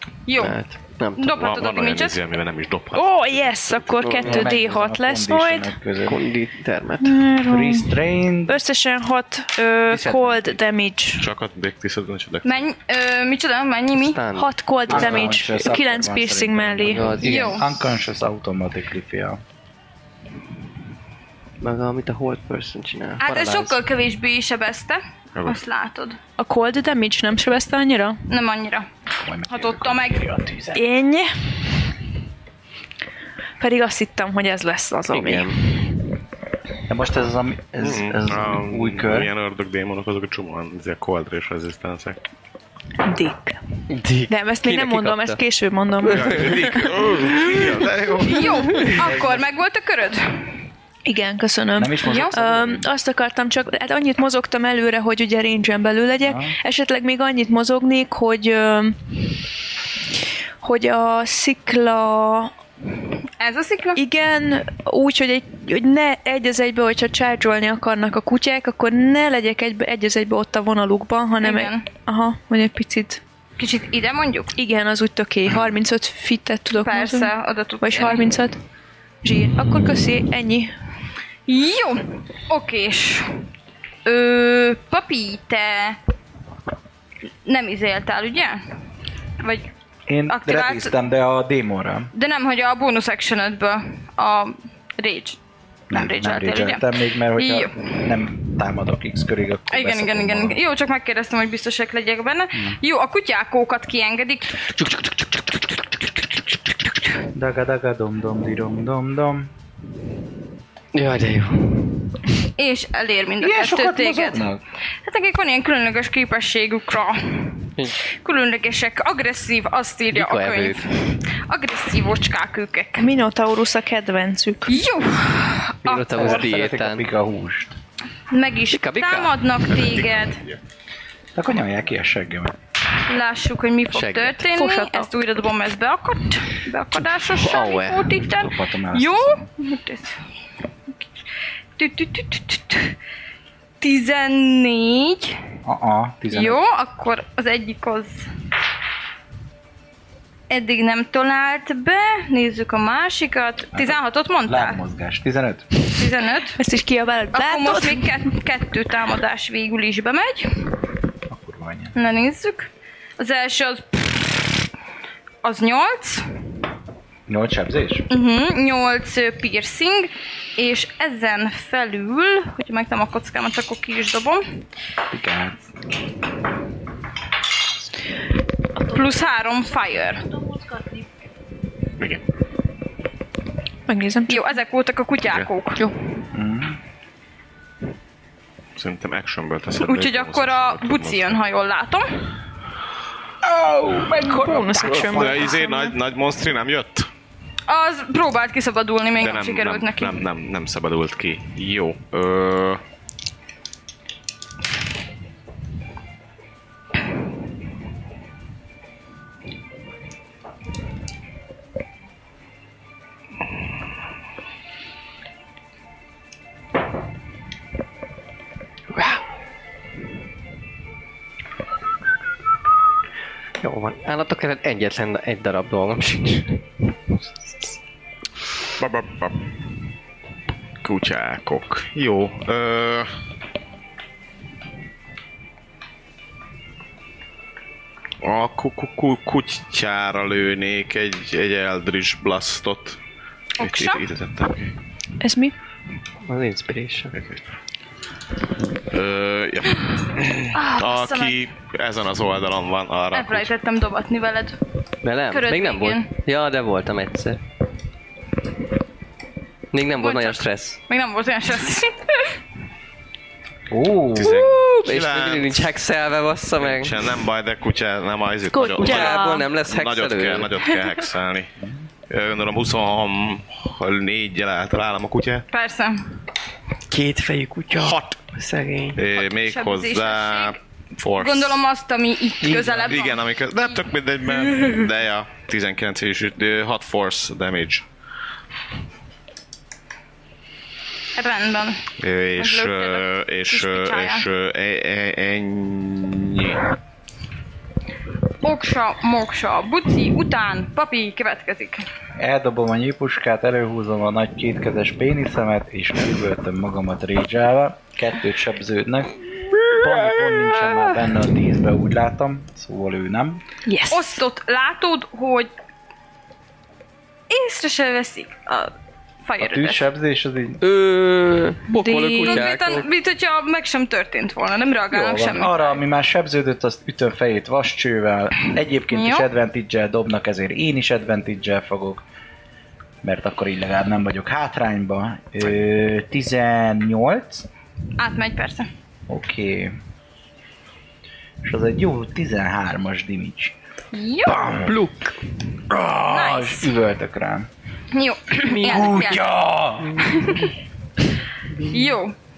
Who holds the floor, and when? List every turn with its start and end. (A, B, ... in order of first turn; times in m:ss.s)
0:00.2-0:00.6 A
0:00.4-0:01.3 B
0:01.2-0:02.2 A
0:01.3-0:04.2 C
0:02.9-0:05.8 D
0:04.1-0:04.6 B
0:04.2-0:06.2 E
0:06.1-0:07.2 B
0:07.0-0:11.3 D
0:07.4-0:08.6 E
0:09.9-0:10.4 E
0:11.2-0:12.7 C
0:12.4-0:14.2 A
0:14.0-0:15.6 B
0:14.4-0:17.1 D
0:14.9-0:19.4 E
0:16.9-0:17.8 B
0:17.2-0:17.7 A
0:21.6-0:23.8 B
0:23.2-0:26.2 A
0:25.4-0:25.6 C
0:26.4-0:28.2 D
0:28.3-0:28.9 A
0:29.2-0:30.8 E
0:29.5-0:30.3 A
0:30.7-0:31.3 D
0:33.6-0:35.5 D
0:35.1-0:35.6 B
0:36.9-0:39.3 E
0:37.8-0:42.2 C
0:43.0-0:43.6 D
0:43.9-0:45.4 B
0:44.3-0:46.8 D
0:46.0-0:48.9 C
0:46.1-0:47.6 B
0:48.2-0:50.2 A
0:49.0-0:49.4 E
0:51.1-0:59.0 D
0:51.8-0:52.8 E
0:52.0-0:52.4 A
0:56.2-0:56.6 E
1:00.6-1:02.5 D
1:03.4-1:04.0 A
1:04.0-1:13.2 D
1:11.4-1:11.9 A
1:13.6-1:14.5 A
1:14.5-1:18.6 D
1:16.8-1:18.4 A
1:19.2-1:20.7 D
1:21.5-1:23.3 A
1:24.0-1:26.0 A
1:27.4-1:28.6 A
1:29.4-1:29.7 A
1:30.1-1:32.1 E
1:30.3-1:30.9 A
1:32.1-1:35.4 A
1:35.9-1:40.6 E
1:35.9-1:37.9 A
1:39.7-1:44.7 A
1:44.8-1:45.2 B
1:47.3-1:49.5 E
1:50.9-1:51.9 B
1:52.6-1:54.5 A
1:53.4-1:54.6 E
1:55.0-2:03.1 A
2:00.1-2:00.8 B
2:03.0-2:04.8 D
2:04.7-2:06.4 A
2:05.8-2:07.0 B
2:06.1-2:07.8 E
2:08.3-2:10.4 A
2:08.7-2:09.4 B
2:09.8-2:10.6 C
2:11.4-2:12.6 E
2:13.1-2:20.2 A
2:13.9-2:14.4 B
2:14.5-2:15.1 D
2:17.3-2:18.1 B
2:18.3-2:19.5 E
2:21.8-2:23.0 A
2:23.8-2:25.4 A
2:25.6-2:26.6 E
2:26.3-2:28.3 A
2:30.5-2:34.8 A
2:33.7-2:35.7 E
2:35.9-2:36.6 A
2:36.6-2:38.1 D
2:37.3-2:40.5 A
2:41.3-2:41.9 E
2:42.0-2:44.6 A
2:45.4-2:46.2 A
2:47.3-2:48.0 E
2:48.1-2:54.4 A
2:55.1-2:55.6 E
2:58.9-3:00.3 A
3:03.9-3:04.5 D
3:04.3-3:05.8 A
3:06.3-3:06.8 E
3:08.8-3:11.4 C
3:09.8-3:12.2 A
3:13.5-3:15.2 E
3:14.1-3:16.0 D
3:15.0-3:17.1 C
3:17.7-3:20.2 A
3:19.2-3:22.8 C
3:38.9-3:39.2 B
3:43.6-3:46.6 B
3:48.8-3:49.4 C
3:50.8-3:53.1 C
3:58.2-4:03.0 C
4:03.6-4:04.0 A
4:03.6-4:04.7 C
4:05.2-4:05.6 D
4:06.2-4:07.2 B
4:07.1-4:07.4 C
4:08.9-4:13.5 C
4:10.5-4:11.4 A
4:13.1-4:14.6 A
4:15.0-4:17.4 B
4:15.3-4:16.1 A
4:19.7-4:20.8 B
4:20.0-4:22.3 A
4:23.7-4:24.5 E
4:24.2-4:25.7 C
4:24.2-4:27.1 B
4:26.6-4:31.5 C
4:28.5-4:29.5 D
4:28.8-4:30.5 B
4:32.1-4:35.4 C
4:35.5-4:36.1 A
4:36.9-4:39.0 B
4:37.7-4:38.2 C
4:39.0-4:41.6 C
4:39.2-4:40.6 A
4:41.2-4:43.8 A
4:42.4-4:42.8 E
4:42.7-4:47.8 C
4:51.1-4:54.3 A
4:52.0-4:56.6 C
4:58.4-5:01.9 A
5:02.2-5:13.4 E
5:09.7-5:10.9 B
5:13.6-5:14.2 D
5:13.9-5:15.5 A
5:17.3-5:18.7 A
5:19.2-5:19.9 A
5:19.4-5:20.6 E
5:20.6-5:22.9 B
5:21.7-5:22.5 D
5:22.2-5:25.8 A
5:24.9-5:32.0 E
5:28.9-5:29.3 A
5:33.0-5:37.5 E
5:38.0-5:38.7 A
5:39.1-5:39.8 E
5:41.4-5:43.6 E
5:43.9-5:44.5 A
5:44.3-5:44.8 E
5:44.5-5:45.2 B
5:45.7-5:47.5 E
5:46.1-5:46.7 A
5:47.9-5:49.2 A
5:48.5-5:49.2 B
5:48.6-5:50.3 E
5:50.0-5:50.4 A
5:51.7-5:52.1 A